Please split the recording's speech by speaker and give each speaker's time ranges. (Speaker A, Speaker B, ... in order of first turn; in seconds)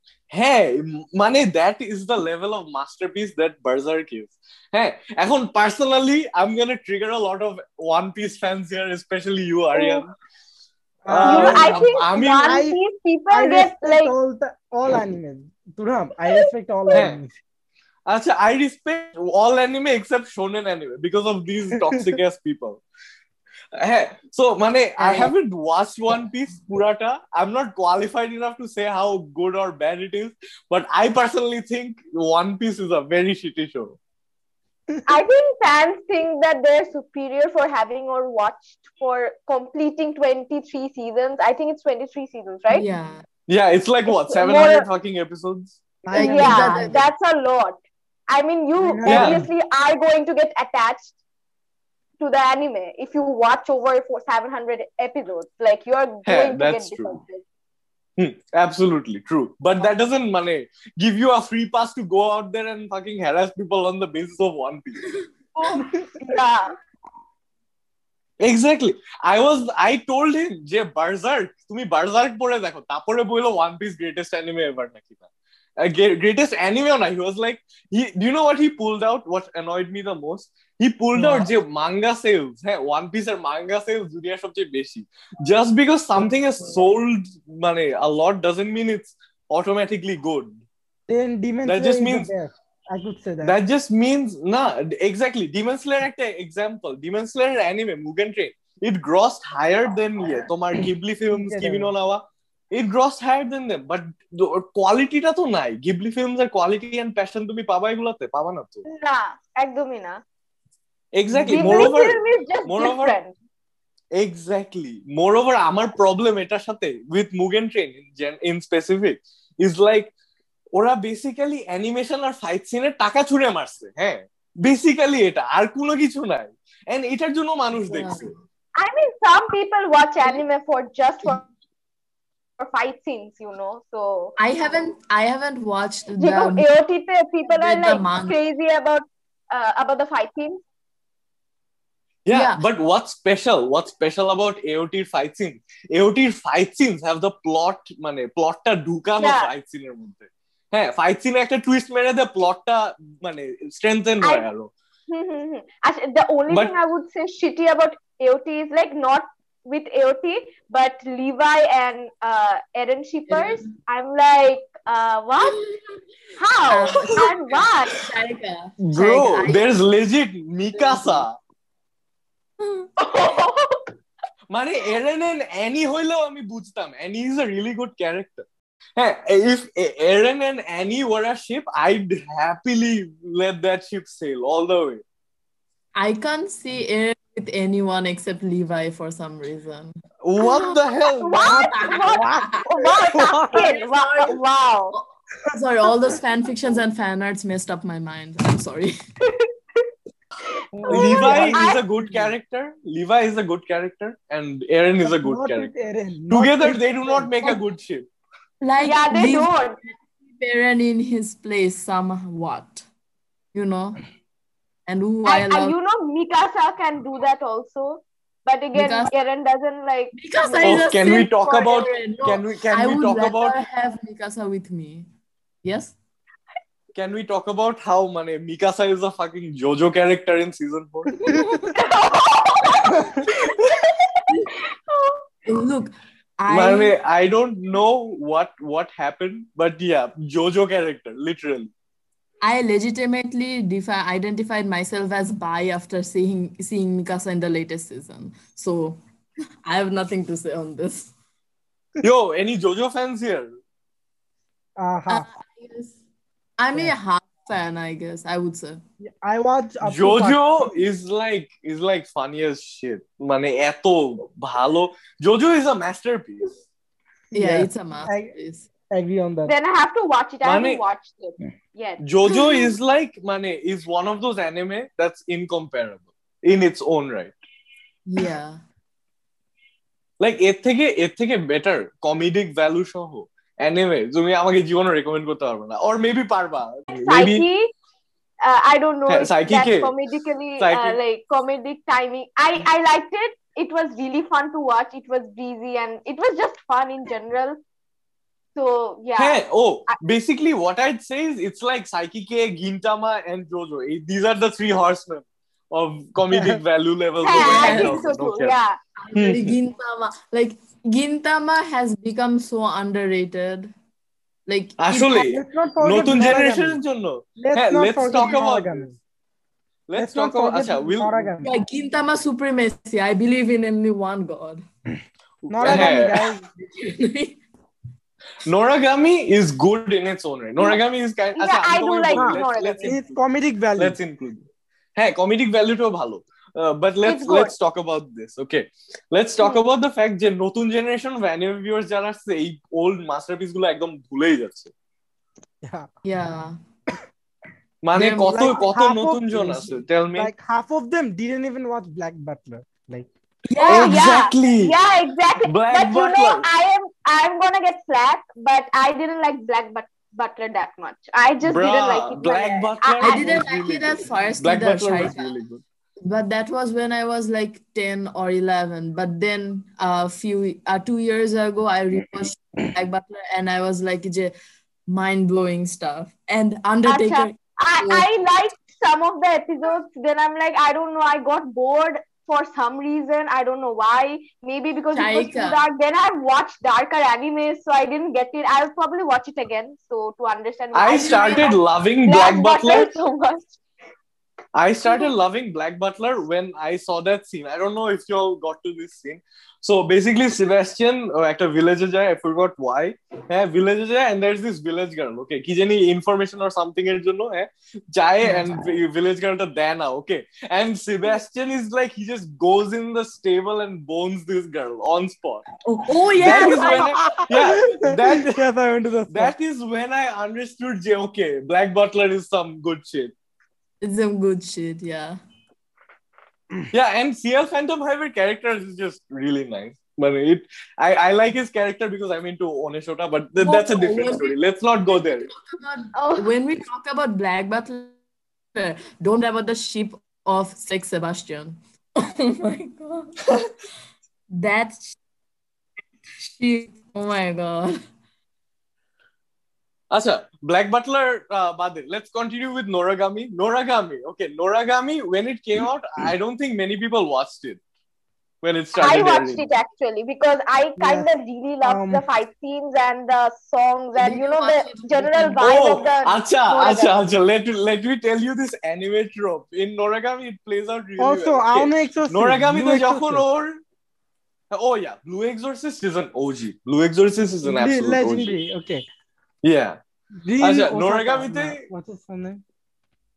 Speaker A: 0.3-10.1, 11.1-12.6, 18.1-22.8, 23.8-34.0, 43.5-45.8, 49.0-49.4, 56.3-57.1, 58.2-65.2, 68.4-75.2, 75.8-90.6, 91.7-92.3, 93.4-108.8, 111.1-113.2, 114.2-120.1, 120.7-128.3, 142.3-154.7, 156.5-156.8, 168.8-171.3, 174.5-178.4, 179.0-185.0, 190.2-191.5, 200.9-205.7, 206.3-208.1, 220.6-223.6, 226.9-231.2, 236.5-241.7, 252.0-253.5, 259.8-266.6, 270.4-270.8, 272.0-277.3, 280.2-287.4, 289.1-289.9, 290.6-291.0, 299.2-308.5, 309.1-309.5, 314.8-318.9, 319.9-321.3, 325.4-326.2, 328.4-333.2, 333.8-344.7, 347.8-350.3, 353.7-354.8, 355.4-356.5, 361.4-365.6, 390.7-392.9, 394.5-415.4, 416.2-418.4, 419.1-423.1, 426.7-435.3, 449.9-457.6, 458.4-459.4, 465.4-473.6, 474.5-478.4, 479.4-479.8, 480.4-481.6
Speaker B: 9.7-10.0, 11.2-14.1, 35.1-42.9, 44.1-44.9, 46.1-47.8, 48.3-51.2, 52.2-57.4, 65.6-66.8, 108.9-110.2, 111.5-113.3, 128.8-131.5, 132.6-134.4, 136.2-140.6, 149.2-149.5, 154.2-154.5, 155.1-165.6, 166.4-168.0, 173.0-173.9, 191.2-195.0, 200.9-201.8, 208.8-209.8, 215.3-221.1, 231.7-233.0, 233.9-235.2, 269.5-272.7, 286.9-287.7, 288.4-297.6, 298.6-300.0, 307.2-308.8, 331.4-333.0, 337.0-337.5, 339.4-339.6, 353.6-363.4, 376.9-393.6, 435.9-436.3, 458.8-466.9
Speaker C: 11.1-12.8, 13.3-17.3, 21.9-22.2, 25.0-25.3, 46.0-47.0, 48.8-49.5, 65.8-66.4, 91.1-93.6, 101.3-101.9, 111.3-111.9, 191.4-192.6, 193.1-193.6, 200.7-202.3, 205.0-207.3, 254.8-255.3, 259.0-260.4, 267.3-268.3, 268.9-269.5, 306.3-306.6, 315.2-316.8, 317.4-319.0, 320.0-321.6, 325.5-326.4, 332.2-334.0, 345.6-345.9, 348.2-353.1, 416.3-419.3, 460.8-461.1, 461.6-462.0, 471.0-473.2, 477.4-478.8, 480.2-482.4
Speaker D: 42.7-43.2, 46.1-47.1, 81.2-81.5, 127.8-128.4, 134.4-136.7, 137.5-138.4, 142.3-142.6, 163.3-163.7, 165.5-165.8, 166.7-169.7, 170.7-171.3, 172.6-172.9, 185.9-190.8, 191.4-194.4, 194.9-198.9, 208.6-212.8, 213.5-214.0, 214.9-215.8, 218.8-219.1, 220.1-225.1, 225.6-226.0, 231.2-231.7, 234.3-234.5, 235.5-236.9, 242.4-249.0, 249.7-251.1, 255.1-256.0, 256.6-258.8, 267.3-268.7, 278.1-278.6, 307.4-308.1, 309.0-313.7, 314.5-315.3, 321.4-324.6, 325.6-327.4, 346.0-346.6, 347.9-348.6, 353.5-354.0, 363.0-365.3, 366.0-374.3, 374.9-378.1, 384.9-385.6, 390.9-391.5, 408.2-408.6, 415.6-417.0, 423.8-425.2, 433.4-434.4, 434.9-438.0, 438.6-443.5, 444.3-445.0, 446.2-447.8, 464.0-465.5